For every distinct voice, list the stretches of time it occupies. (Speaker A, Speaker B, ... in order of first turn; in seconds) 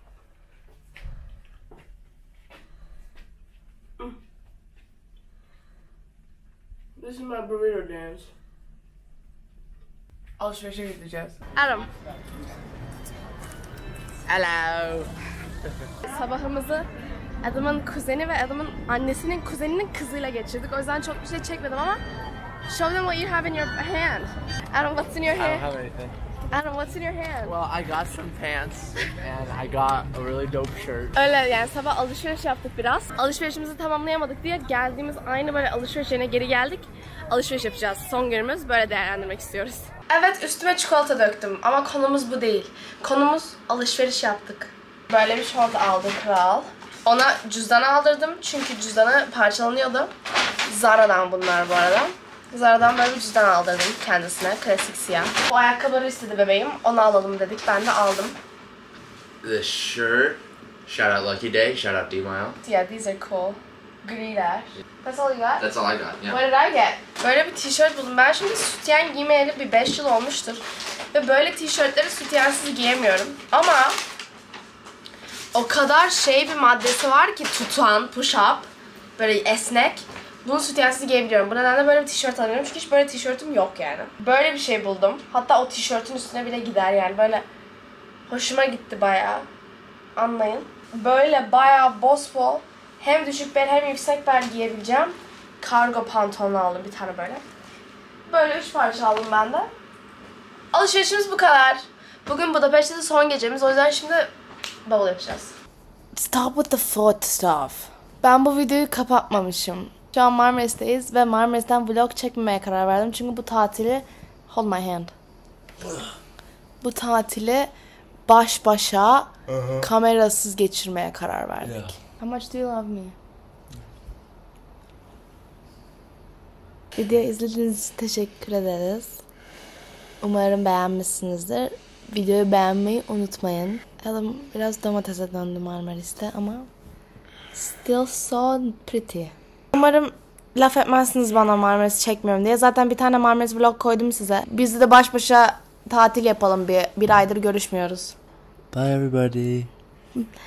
Speaker A: 7.0-8.3, 10.4-11.9, 16.0-16.9, 17.4-22.0, 22.7-25.7, 26.5-27.5, 31.1-50.1, 50.6-58.4, 62.6-65.6, 66.2-74.0, 75.5-87.5, 88.3-89.5, 90.2-97.4, 98.3-99.7, 100.7-104.3, 104.9-105.5, 106.1-115.1, 116.8-117.7, 118.3-123.2, 126.9-129.2, 130.2-136.7, 137.5-148.1
Speaker B: 14.3-15.1, 25.3-26.1, 27.4-31.1
Speaker C: 59.4-62.6, 65.6-66.4, 119.5-119.9, 121.6-121.9, 148.7-149.7